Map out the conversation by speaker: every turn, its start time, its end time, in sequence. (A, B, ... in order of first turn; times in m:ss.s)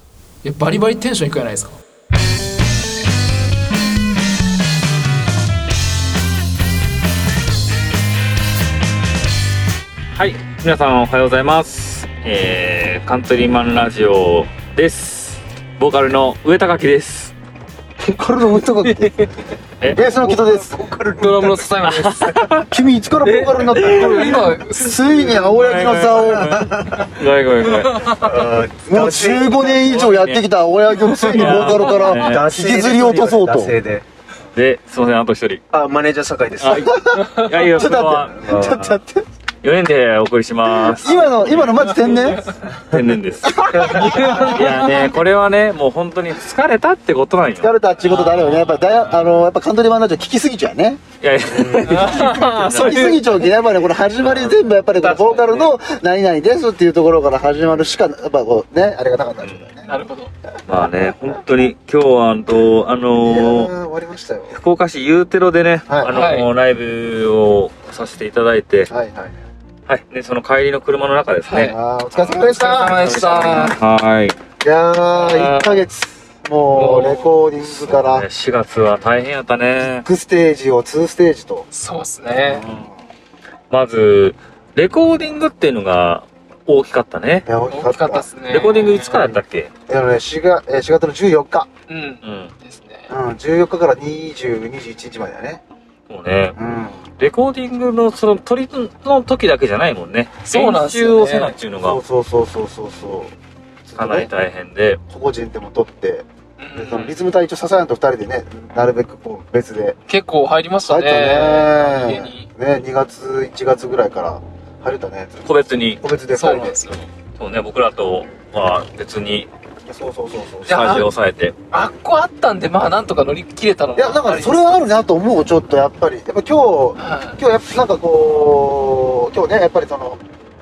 0:00.4-0:01.8 A
0:10.1-0:17.3 B
0:18.0-0:19.2 C
0:19.8-0:20.1 B
0:19.9-0:20.8 C
0:20.2-0:22.6 D
0:21.2-0:22.2 A
0:21.9-0:22.7 B
0:22.7-0:27.1 C
0:23.2-0:26.5 A
0:25.8-0:28.1 B
0:28.0-0:30.0 D
0:28.8-0:33.7 C
0:29.7-0:30.5 B
0:31.1-0:32.5 B
0:31.3-0:34.0 D
0:34.5-0:35.6 B
0:35.7-0:36.9 D
0:36.6-0:38.5 B
0:36.7-0:39.2 C
0:38.3-0:39.0 D
0:39.6-0:47.7 B
0:40.8-0:42.5 C
0:43.4-0:44.6 C
0:44.0-0:44.6 D
0:44.0-0:44.6 A
0:47.6-0:51.0 C
0:48.1-0:48.9 A
0:51.2-0:53.2 B
0:51.5-0:52.0 D
0:51.9-0:53.1 A
0:52.0-1:00.0 C
0:54.2-0:54.6 B
0:54.9-0:55.8 A
0:59.4-0:59.6 B
0:59.9-1:00.3 A
1:00.6-1:03.7 B
1:03.2-1:04.6 C
1:04.5-1:08.9 B
1:05.9-1:06.1 C
1:06.0-1:06.5 A
1:08.9-1:09.4 C
1:09.9-1:14.4 B
1:11.5-1:11.7 A
1:11.6-1:13.7 C
1:12.4-1:13.8 A
1:14.6-1:18.3 C
1:15.1-1:15.8 A
1:16.7-1:17.3 A
1:17.6-1:20.1 B
1:19.8-1:21.7 C
1:21.7-1:22.6 A
1:22.4-1:22.9 C
1:23.7-1:27.5 B
1:27.4-1:28.3 C
1:27.7-1:29.3 A
1:28.5-1:29.7 B
1:29.9-1:31.7 C
1:31.9-1:33.1 A
1:32.2-1:32.5 B
1:33.1-1:35.6 C
1:36.1-1:36.6 B
1:36.5-1:37.0 C
1:37.2-1:42.0 B
1:40.4-1:41.5 A
1:41.8-1:43.3 C
1:43.9-1:44.3 C
1:44.0-1:45.0 B
1:45.1-1:46.2 C
1:46.6-1:47.2 A
1:46.8-1:50.0 C
1:50.1-1:52.4 A
1:50.8-1:56.8 C
1:55.4-1:56.0 B
1:56.3-1:57.0 A
1:57.4-1:59.5 B
1:59.9-2:01.1 C
2:00.7-2:01.1 A
2:00.7-2:01.5 B
2:01.7-2:04.6 A
2:03.9-2:10.2 C
2:07.0-2:07.4 A